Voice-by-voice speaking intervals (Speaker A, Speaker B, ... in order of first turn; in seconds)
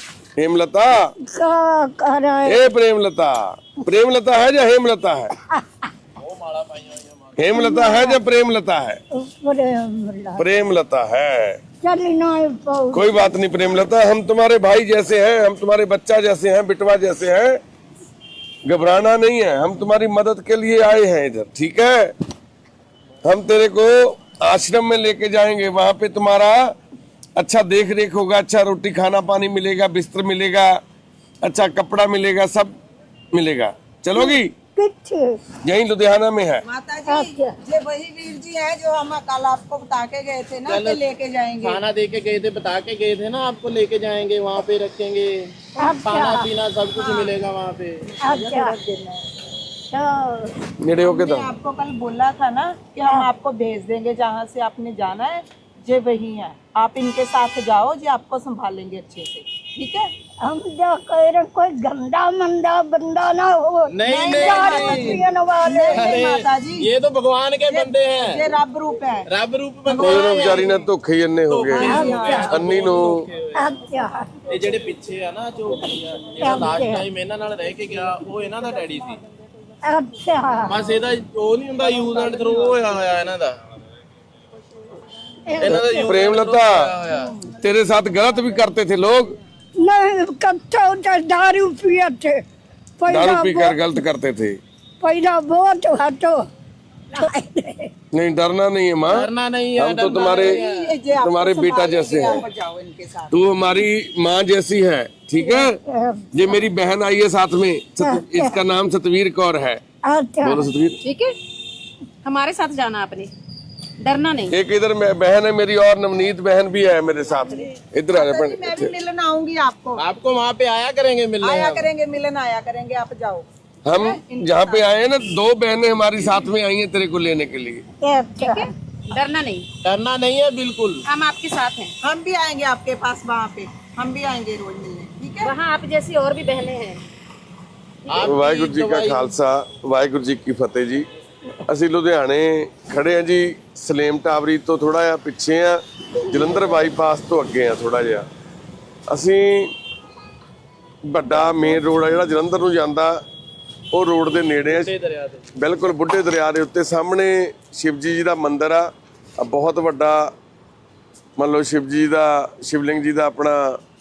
Speaker A: 0.4-1.1, 2.5-5.3, 7.4-9.0, 10.4-11.6, 12.9-17.6, 18.7-22.1, 23.2-26.8, 27.4-30.8, 31.4-32.7, 33.3-34.5, 35.6-36.6, 50.8-51.5, 70.0-73.2, 85.6-86.9, 87.6-89.4, 93.1-94.6, 98.1-100.6, 101.2-102.5, 103.3-105.8, 106.3-109.8, 110.4-111.0, 114.5-118.9, 123.9-127.8, 138.2-141.1, 141.7-148.3, 149.1-149.7, 151.1-153.2, 153.9-154.9, 155.6-160.3, 161.4-163.8
Speaker B: 1.2-2.7, 5.4-5.9, 7.5-8.2, 9.1-10.5, 11.8-13.4, 34.1-35.4, 37.1-37.6, 45.8-46.5, 48.2-48.8, 49.9-50.5, 60.4-66.2, 71.8-72.6, 73.5-74.4, 75.7-77.1, 79.8-80.8, 85.5-86.3, 89.8-92.4, 93.0-94.0, 95.0-96.5, 97.1-97.9, 105.4-106.7, 108.0-108.6, 110.1-110.8, 128.0-128.7
Speaker C: 6.2-7.4, 40.7-41.0, 41.6-48.1, 63.9-65.2, 65.9-68.6, 69.3-70.8, 71.5-73.8, 74.5-79.2, 80.7-83.6, 85.6-87.3, 99.1-101.0, 120.0-121.9, 129.8-131.1, 138.1-139.3, 154.6-155.5
Speaker D: 36.6-41.8, 47.0-47.3, 48.2-49.2, 51.0-60.1, 64.0-66.9, 67.7-69.3, 69.9-70.7, 71.7-72.7, 100.3-103.3, 118.1-120.0, 121.4-124.8, 132.0-135.5
Speaker E: 111.0-111.4, 112.2-113.3, 114.0-114.5, 128.4-129.7, 131.1-131.9, 135.4-137.0